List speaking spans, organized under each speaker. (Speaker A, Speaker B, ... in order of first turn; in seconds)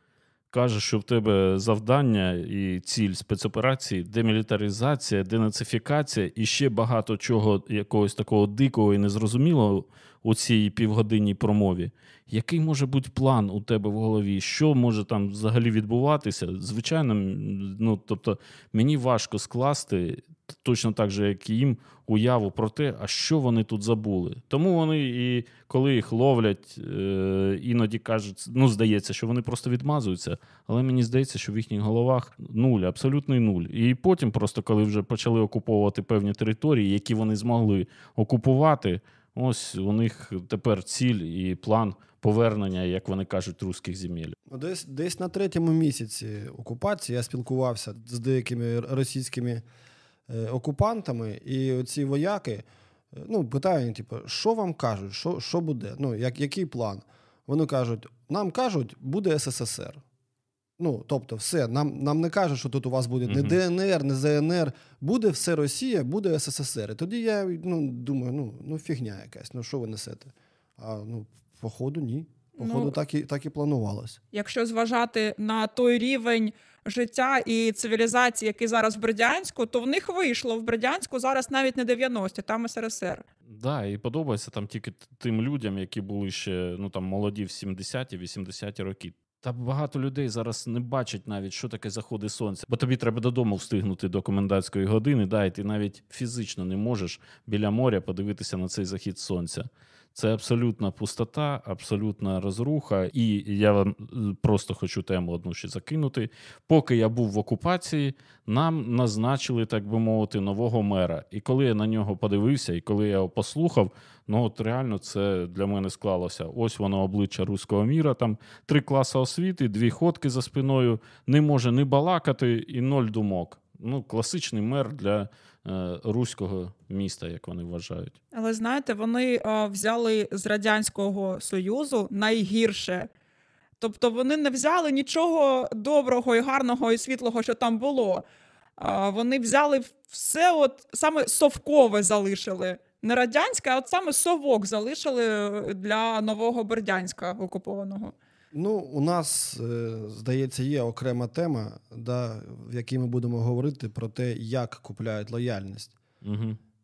Speaker A: 0.5-44.3, 63.3-63.6, 83.5-128.2, 156.2-156.6
Speaker B: 44.5-49.6, 50.3-60.0, 60.8-74.2, 148.5-155.9
Speaker C: 72.6-73.0, 74.3-83.2, 128.3-133.1, 133.8-138.2, 138.8-148.2